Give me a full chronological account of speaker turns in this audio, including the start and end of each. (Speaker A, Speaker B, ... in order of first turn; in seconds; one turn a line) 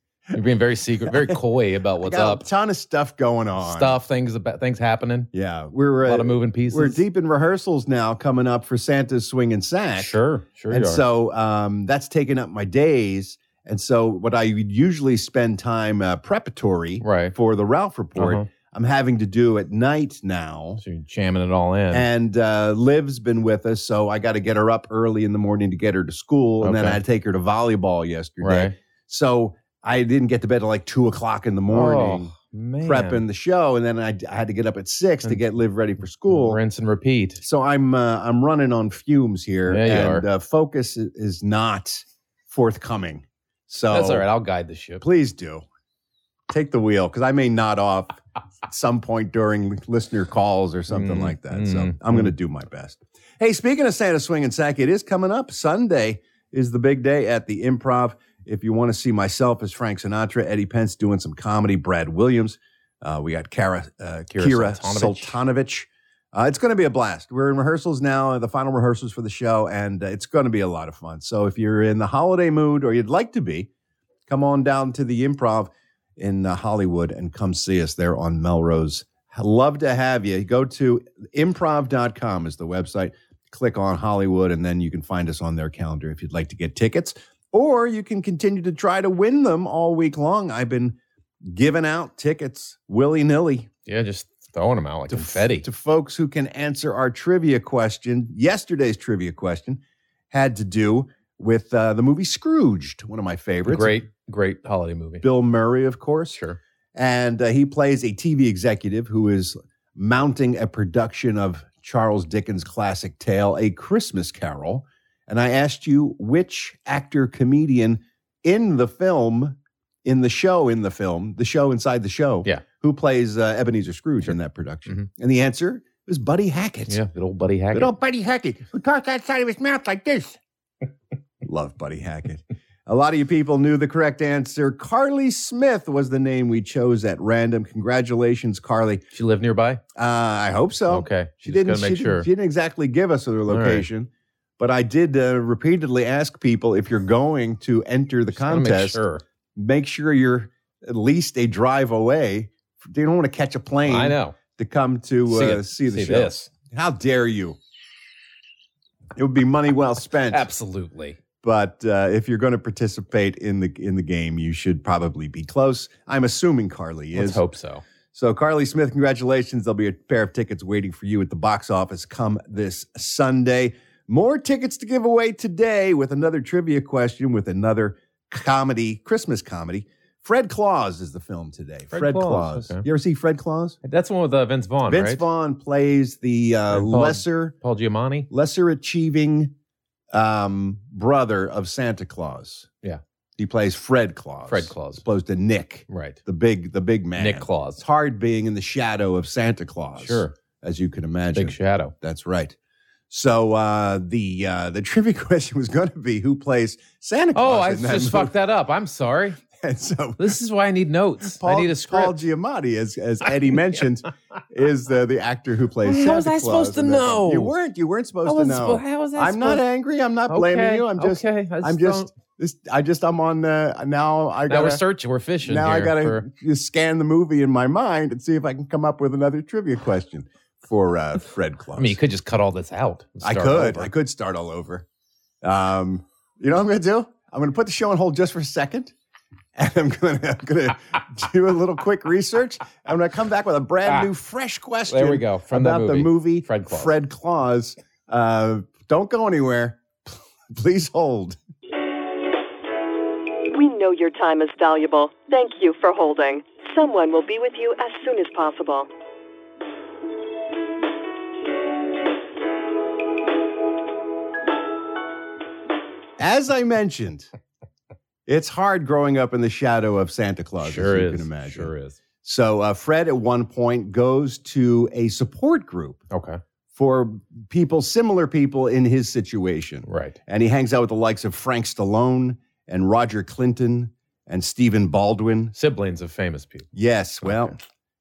Speaker A: 0.3-2.4
Speaker B: 2.0-4.0
Speaker A: 3.6-5.3
Speaker B: 5.3-10.1
Speaker A: 6.0-7.0
Speaker A: 10.0-11.0
Speaker B: 10.7-20.8
Speaker A: 17.0-17.3
Speaker A: 18.1-18.4
Speaker A: 20.8-22.1
Speaker B: 21.9-36.6
Speaker A: 26.6-27.0
Speaker A: 28.4-28.7
Speaker A: 31.7-33.2
Speaker A: 36.3-37.4
Speaker B: 37.4-44.2
Speaker A: 39.7-40.2
Speaker A: 43.9-45.0
Speaker B: 45.0-45.6
Speaker B: 46.5-73.7
Speaker A: 50.9-52.3
Speaker A: 64.3-65.3
Speaker B: 74.3-93.7
Speaker A: 93.9-95.7
Speaker B: 95.1-99.8
Speaker B: 100.3-104.0
Speaker A: 103.7-105.2
Speaker B: 105.2-106.4
Speaker A: 106.3-106.6
Speaker B: 107.0-127.0
Speaker A: 126.9-127.9
Speaker B: 127.7-130.4
Speaker B: 131.4-139.0
Speaker A: 139.1-139.8
Speaker B: 139.9-149.0
Speaker A: 140.9-142.3
Speaker A: 143.5-143.9
Speaker A: 148.3-149.2
Speaker B: 149.6-157.6
Speaker A: 153.9-154.3
Speaker A: 155.3-156.5
Speaker B: 159.2-160.4
Speaker A: 160.3-161.2
Speaker B: 161.4-167.4
Speaker A: 167.1-167.8
Speaker B: 168.1-183.8
Speaker A: 181.9-182.8
Speaker A: 183.8-185.2
Speaker B: 184.8-187.5
Speaker A: 186.7-188.3
Speaker B: 188.3-189.5
Speaker B: 190.1-192.7
Speaker B: 193.4-202.5
Speaker A: 194.5-195.0
Speaker A: 195.9-196.2
Speaker A: 197.2-197.8
Speaker A: 200.0-200.3
Speaker A: 201.3-201.9
Speaker B: 203.1-208.3
Speaker A: 207.3-209.4
Speaker B: 209.6-210.3
Speaker A: 210.2-212.1
Speaker B: 211.3-224.8
Speaker A: 215.8-217.5
Speaker A: 218.2-219.6
Speaker A: 220.3-222.1
Speaker A: 224.5-226.3
Speaker B: 225.4-232.0
Speaker A: 231.8-233.9
Speaker B: 233.2-234.8
Speaker B: 235.4-238.9
Speaker B: 239.6-251.4
Speaker A: 244.9-246.9
Speaker C: 253.5-258.9
Speaker B: 266.2-267.3
Speaker B: 268.3-271.7
Speaker A: 270.6-272.0
Speaker B: 272.2-276.0
Speaker A: 276.1-276.4
Speaker B: 276.7-285.5
Speaker A: 279.9-280.2
Speaker A: 285.6-286.7
Speaker B: 286.7-287.5
Speaker A: 287.2-287.5